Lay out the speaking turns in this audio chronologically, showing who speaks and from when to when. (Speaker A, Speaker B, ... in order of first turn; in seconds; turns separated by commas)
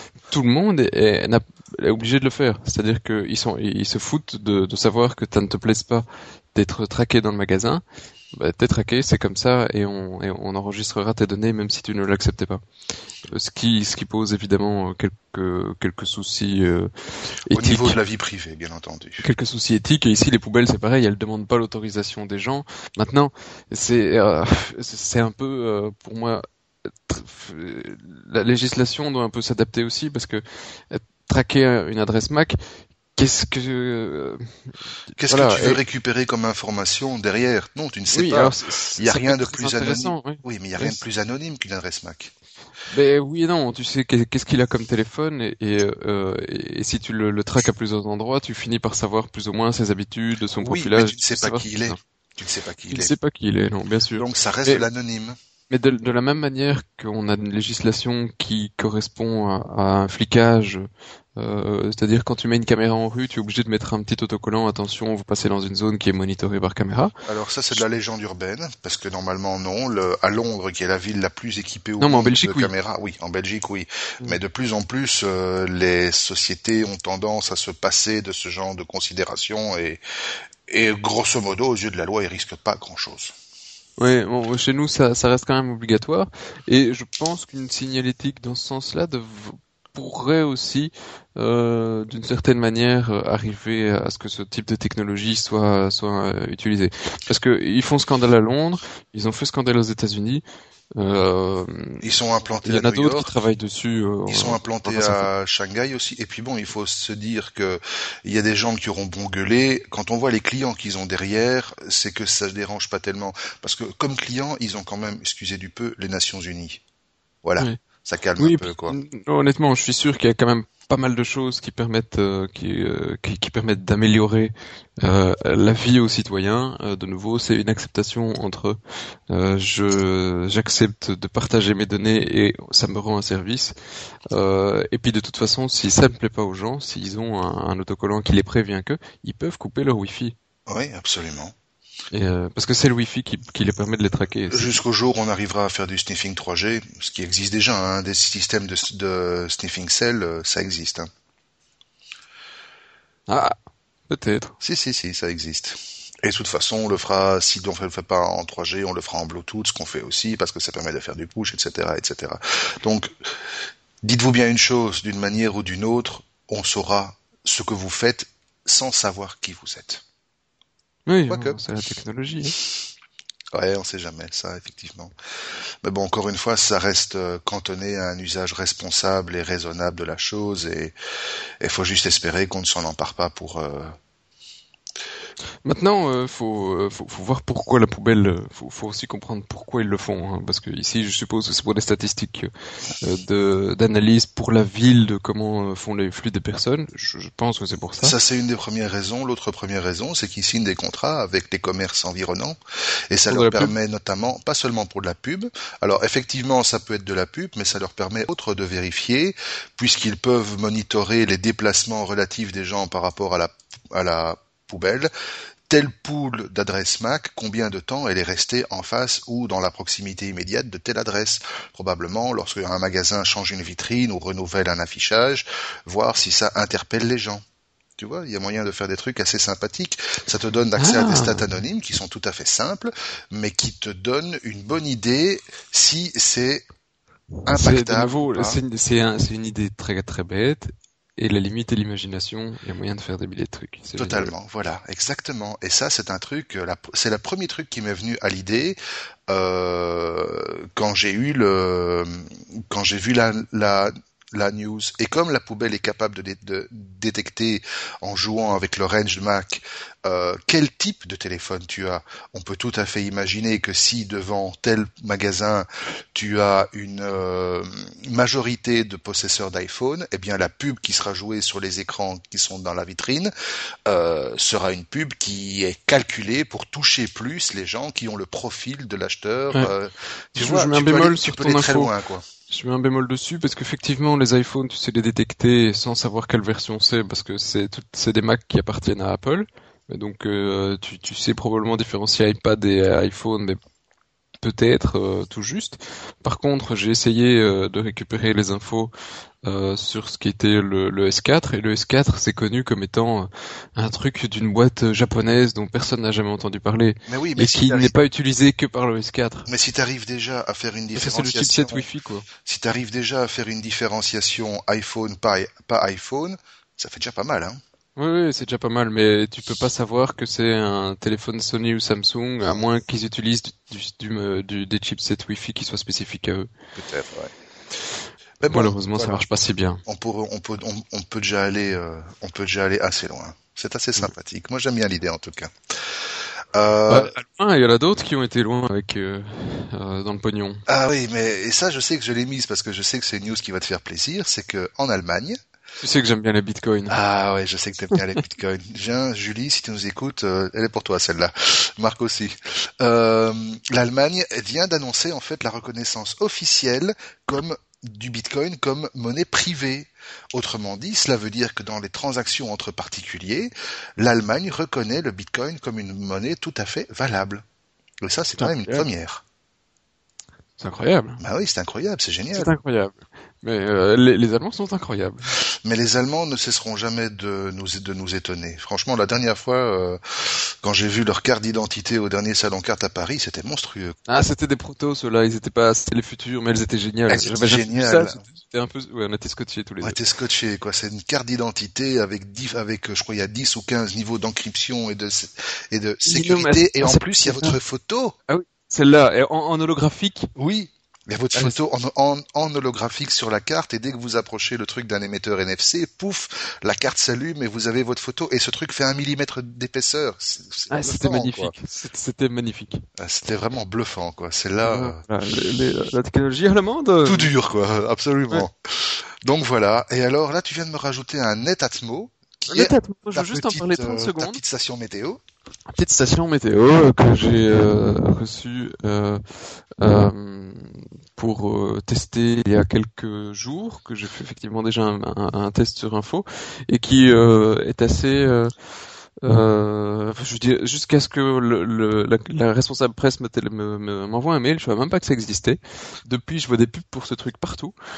Speaker A: 0.3-12.6, Speaker A: 13.3-16.9, Speaker A: 17.4-18.0, Speaker B: 17.5-19.2, Speaker A: 19.2-26.4, Speaker A: 27.0-32.6, Speaker A: 33.2-34.5, Speaker A: 35.2-35.8, Speaker B: 35.2-42.3, Speaker A: 38.1-41.0, Speaker A: 42.9-52.0, Speaker B: 50.6-53.1, Speaker A: 52.9-54.9, Speaker B: 54.1-55.4, Speaker A: 55.7-67.1, Speaker B: 67.3-80.0, Speaker A: 72.0-72.7, Speaker B: 80.7-83.3, Speaker A: 84.0-100.4, Speaker A: 101.0-102.0, Speaker B: 102.0-103.3, Speaker A: 102.6-105.3, Speaker B: 104.3-116.8, Speaker B: 117.4-119.0, Speaker A: 118.4-128.8, Speaker A: 129.3-133.7, Speaker A: 134.3-140.4, Speaker B: 140.7-141.5, Speaker A: 142.1-144.7, Speaker B: 144.5-151.1, Speaker A: 153.3-153.6, Speaker A: 154.1-154.6, Speaker B: 154.6-163.1, Speaker B: 164.0-170.0, Speaker A: 171.1-172.6, Speaker B: 171.3-171.6, Speaker B: 173.5-175.1, Speaker B: 175.8-180.9, Speaker B: 181.6-183.9, Speaker A: 185.7-198.2, Speaker B: 198.0-202.6, Speaker B: 203.1-215.1, Speaker A: 203.3-203.7, Speaker B: 215.7-227.4, Speaker B: 228.0-236.7, Speaker A: 230.8-231.5, Speaker B: 237.5-238.6, Speaker A: 237.5-244.3, Speaker B: 244.0-248.8, Speaker B: 249.3-273.3, Speaker B: 273.9-282.2, Speaker A: 280.4-281.9, Speaker A: 282.5-293.6, Speaker A: 294.4-298.9, Speaker A: 299.4-309.5, Speaker B: 307.1-307.9, Speaker B: 309.5-311.9, Speaker A: 310.9-312.3, Speaker B: 312.4-317.6, Speaker A: 318.0-326.5, Speaker B: 326.8-327.3, Speaker B: 328.4-329.3, Speaker A: 328.5-329.8, Speaker B: 329.9-335.5, Speaker B: 336.5-337.1, Speaker A: 336.9-340.6, Speaker B: 340.7-345.4, Speaker A: 345.8-347.0, Speaker B: 346.9-367.4, Speaker B: 368.0-369.2, Speaker A: 368.4-368.9, Speaker A: 370.6-371.2, Speaker B: 371.2-372.5, Speaker A: 372.3-375.4, Speaker B: 375.6-384.0, Speaker A: 384.1-390.0, Speaker B: 387.1-388.2, Speaker B: 389.8-398.1, Speaker A: 396.1-397.6, Speaker A: 398.3-400.3, Speaker B: 400.4-411.5, Speaker A: 410.7-412.9, Speaker B: 413.0-415.0, Speaker A: 414.6-417.3, Speaker B: 417.1-425.2, Speaker A: 422.5-424.4, Speaker A: 425.7-429.2, Speaker A: 429.8-438.5, Speaker A: 439.2-447.7